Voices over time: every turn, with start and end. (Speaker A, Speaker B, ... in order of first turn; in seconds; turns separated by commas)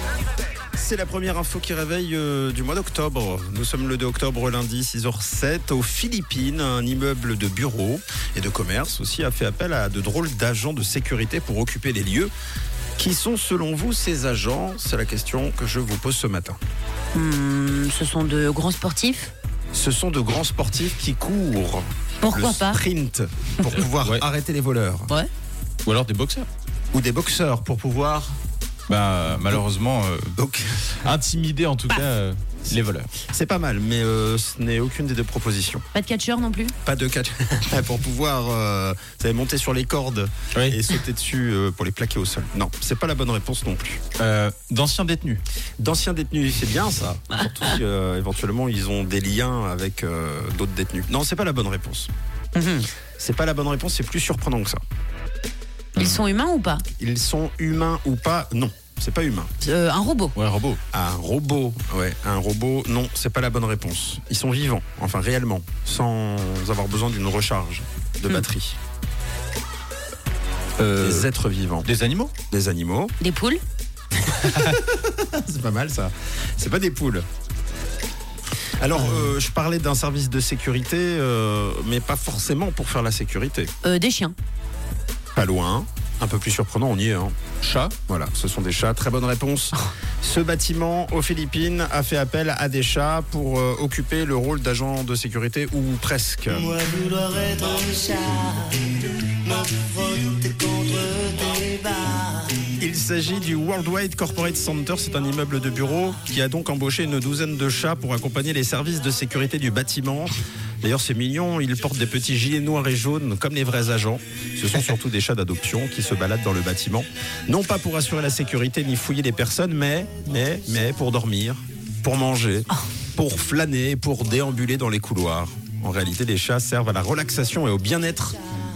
Speaker A: 0.7-12.3, Speaker A: 13.0-16.6, Speaker B: 17.1-19.3, Speaker A: 19.7-25.1, Speaker B: 22.2-22.8, Speaker C: 23.8-24.2, Speaker C: 25.8-26.5, Speaker A: 26.9-28.4, Speaker C: 28.9-30.3, Speaker A: 30.4-30.9, Speaker C: 30.9-33.1, Speaker A: 33.2-35.8, Speaker B: 35.9-36.7, Speaker A: 36.8-44.0, Speaker C: 40.5-40.8, Speaker C: 44.2-45.4, Speaker A: 45.8-52.1, Speaker B: 52.5-52.9, Speaker A: 53.2-54.8, Speaker B: 56.0-56.8, Speaker A: 57.0-59.5, Speaker B: 59.6-60.3, Speaker C: 60.3-60.8, Speaker A: 60.9-68.8, Speaker C: 70.8-71.3, Speaker A: 71.0-71.9, Speaker C: 71.8-72.3, Speaker A: 72.5-73.1, Speaker B: 73.2-73.6, Speaker A: 74.2-77.2, Speaker C: 74.5-74.8, Speaker A: 78.8-83.7, Speaker B: 83.8-84.3, Speaker A: 85.3-87.3, Speaker C: 87.6-87.9, Speaker A: 88.1-96.7, Speaker D: 96.6-102.6, Speaker A: 102.7-128.4